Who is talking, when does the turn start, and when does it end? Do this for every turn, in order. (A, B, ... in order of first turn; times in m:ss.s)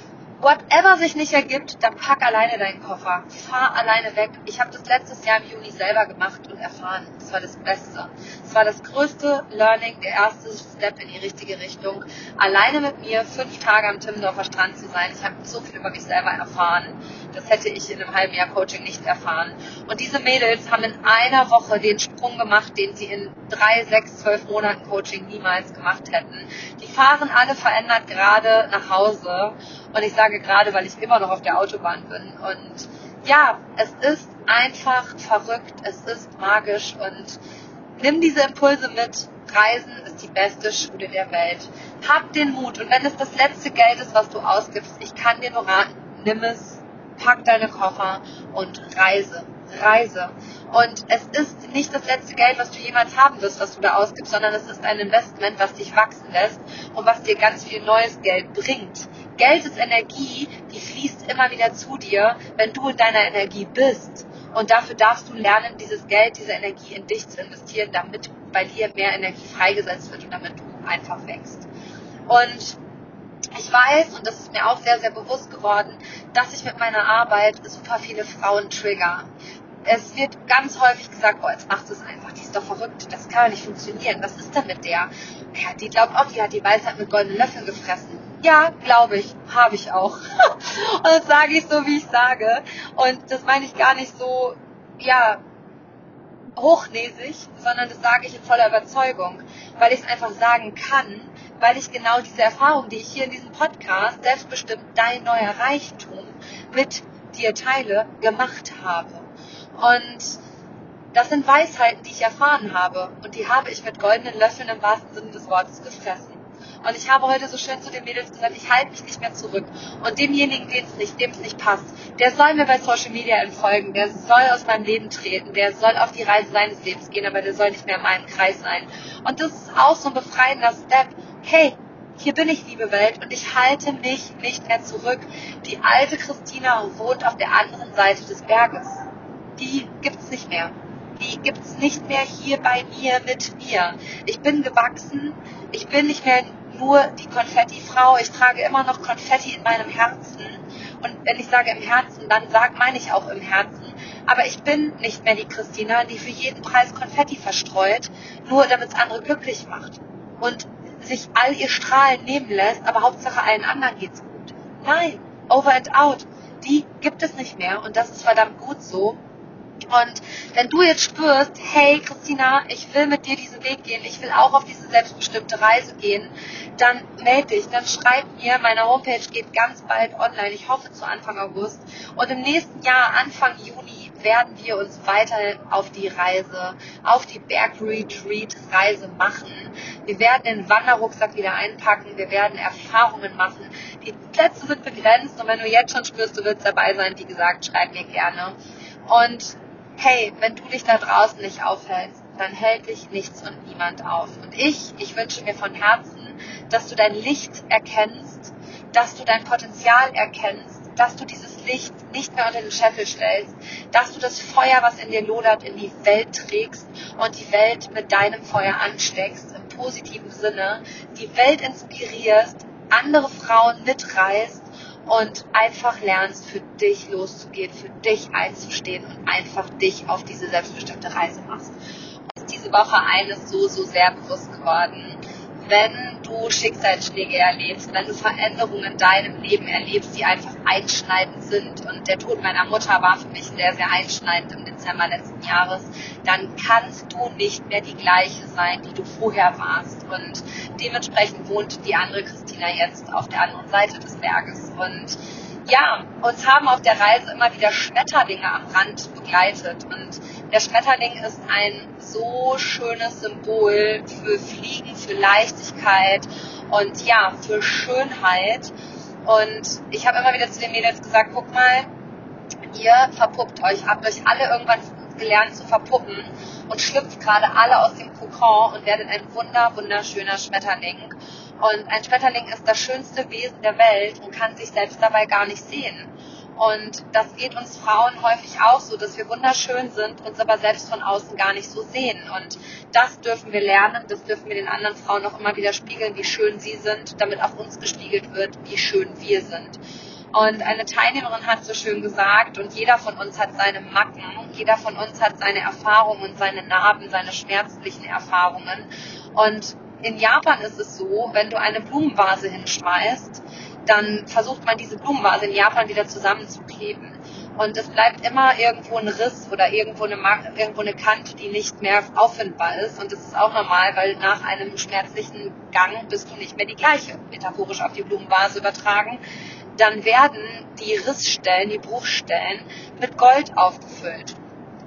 0:00.4-0:37.4 A
0:38.0-1:11.7 A
1:12.3-1:12.8 A
1:13.6-1:19.3 A
1:19.8-1:35.4 A
1:36.6-1:50.4 A
1:51.1-2:19.0 A
2:19.6-2:49.2 A
2:49.9-3:18.6 A
3:19.1-3:51.8 A
3:52.3-4:28.7 A
4:29.2-4:31.9 A
4:32.7-4:59.8 A
5:00.3-5:29.2 A
5:29.8-5:34.4 A